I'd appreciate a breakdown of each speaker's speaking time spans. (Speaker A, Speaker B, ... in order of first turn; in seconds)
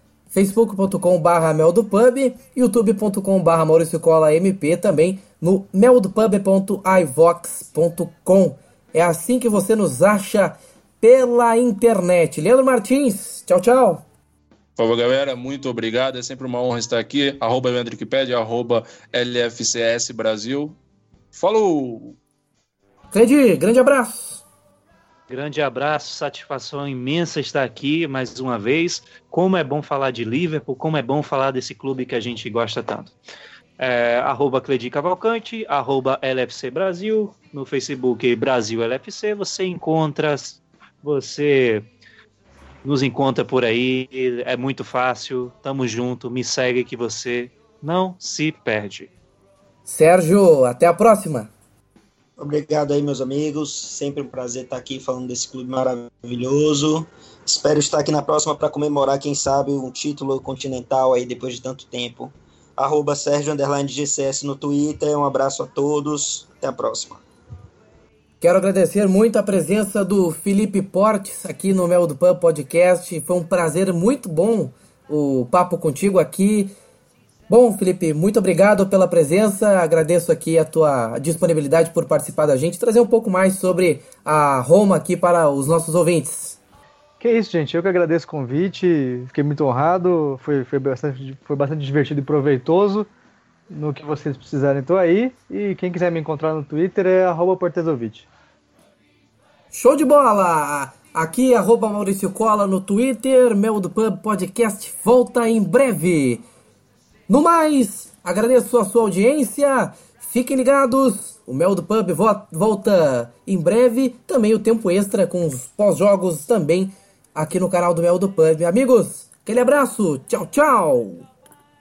Speaker A: 0.3-14.1, 23.1-24.4, 49.9-51.5, 68.4-76.7, 77.5-86.6, 99.7-106.4, 107.3-121.2
Speaker B: 14.8-20.8, 21.3-22.2
Speaker C: 25.3-33.1, 33.8-41.9, 42.8-49.1
Speaker D: 52.4-67.2
Speaker E: 87.2-93.1, 93.7-98.3